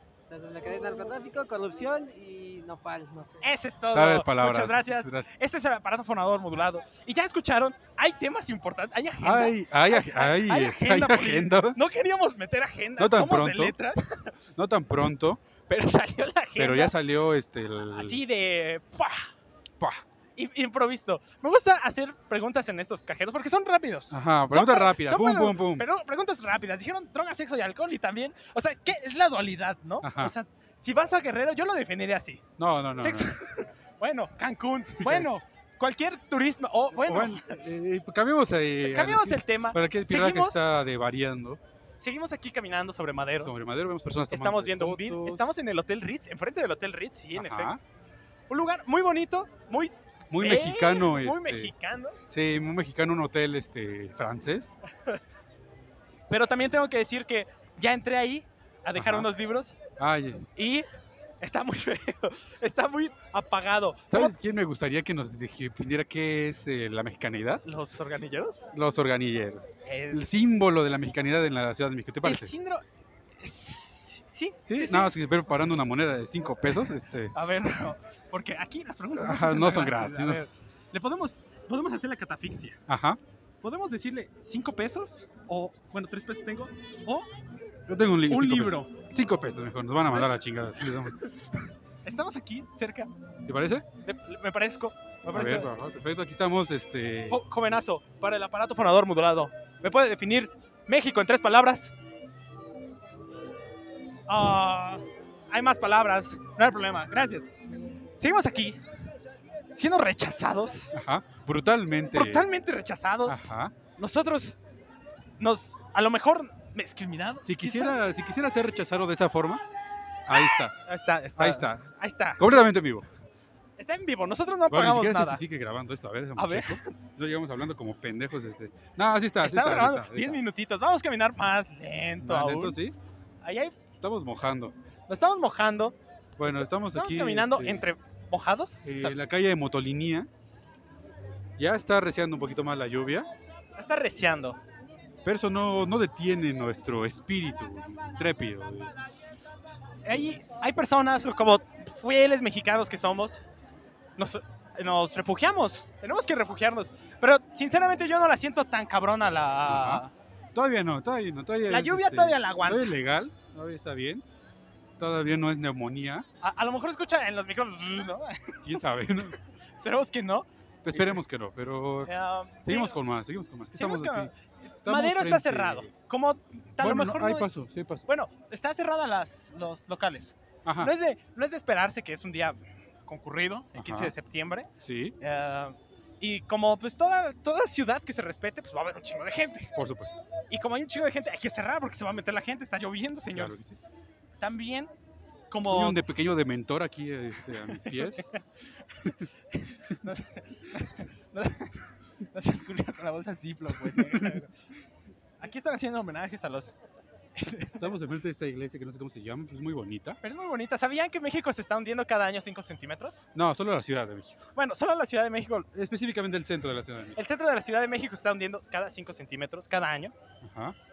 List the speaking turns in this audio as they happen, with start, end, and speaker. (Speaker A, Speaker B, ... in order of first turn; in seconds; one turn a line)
Speaker A: 0.3-3.4
Speaker B: 3.4-14.3
Speaker C: 3.9-5.3
Speaker C: 9.2-11.8
Speaker C: 13.0-13.8
Speaker C: 14.5-15.4
Speaker B: 15.7-16.9
Speaker C: 16.6-18.2
Speaker B: 17.9-19.3
Speaker B: 20.4-32.4
Speaker C: 24.1-25.9
Speaker C: 30.0-30.3
Speaker C: 32.6-33.3
Speaker B: 33.0-37.6
Speaker C: 35.0-35.3
Speaker C: 37.0-41.6
Speaker B: 38.8-40.8
Speaker B: 42.0-43.5
Speaker C: 43.4-45.5
Speaker B: 44.3-47.8
Speaker C: 47.3-47.8
Speaker B: 48.5-52.2
Speaker C: 50.3-51.7
Speaker C: 52.3-54.7
Speaker B: 56.3-59.8
Speaker C: 59.0-59.3
Speaker C: 60.0-60.5
Speaker B: 60.5-60.9
Speaker B: 61.4-64.3
Speaker C: 64.1-67.6
Speaker B: 67.6-68.7
Speaker C: 68.7-72.5
Speaker B: 69.8-70.7
Speaker B: 72.2-72.8
Speaker B: 73.4-75.1
Speaker C: 74.7-77.3
Speaker B: 77.3-82.8
Speaker C: 79.1-80.5
Speaker C: 82.9-83.2
Speaker B: 83.6-87.3
Speaker C: 87.9-91.7
Speaker B: 88.3-88.9
Speaker B: 92.0-93.1
Speaker C: 93.4-93.8
Speaker B: 94.0-95.7
Speaker C: 95.3-97.4
Speaker B: 97.3-101.9
Speaker B: 104.3-107.5
Speaker B: 108.2-108.8
Speaker B: 109.7-110.9
Speaker C: 110.9-112.5
Speaker B: 112.1-114.6
Speaker C: 113.2-113.7
Speaker B: 115.4-117.9
Speaker C: 117.4-119.6
Speaker C: 120.3-120.7
Speaker B: 120.3-122.5
Speaker C: 121.4-121.8
Speaker C: 122.4-123.1
Speaker B: 123.8-125.4
Speaker C: 124.7-130.4
Speaker B: 126.3-126.9
Speaker B: 129.4-132.8
Speaker C: 132.2-132.9
Speaker B: 133.4-133.8
Speaker C: 134.0-134.7
Speaker B: 135.1-139.2
Speaker C: 136.4-137.9
Speaker C: 138.8-140.3
Speaker C: 141.6-143.3
Speaker B: 143.8-144.6
Speaker C: 145.2-148.9
Speaker C: 149.7-150.3
Speaker B: 150.0-153.4
Speaker B: 154.2-160.1
Speaker C: 159.7-160.0
Speaker C: 160.5-164.2
Speaker B: 161.7-163.3
Speaker C: 165.0-166.2
Speaker B: 166.4-168.8
Speaker C: 168.6-169.3
Speaker B: 169.8-170.5
Speaker C: 170.8-172.1
Speaker B: 172.1-173.0
Speaker C: 172.6-174.3
Speaker B: 173.7-174.3
Speaker C: 174.8-175.9
Speaker B: 174.8-184.7
Speaker C: 176.8-178.1
Speaker C: 180.6-180.9
Speaker C: 183.7-184.1
Speaker C: 184.8-185.2
Speaker B: 185.2-189.7
Speaker C: 189.7-190.2
Speaker B: 190.5-193.7
Speaker C: 193.3-193.7
Speaker B: 194.4-194.9
Speaker B: 195.5-196.0
Speaker C: 195.7-198.3
Speaker B: 197.7-198.4
Speaker B: 199.0-204.5
Speaker C: 203.9-204.4
Speaker B: 205.4-206.7
Speaker B: 207.3-207.8
Speaker C: 207.8-210.2
Speaker B: 210.2-213.2
Speaker C: 213.3-214.5
Speaker B: 214.6-215.7
Speaker C: 215.7-217.2
Speaker B: 217.2-220.1
Speaker C: 220.4-220.8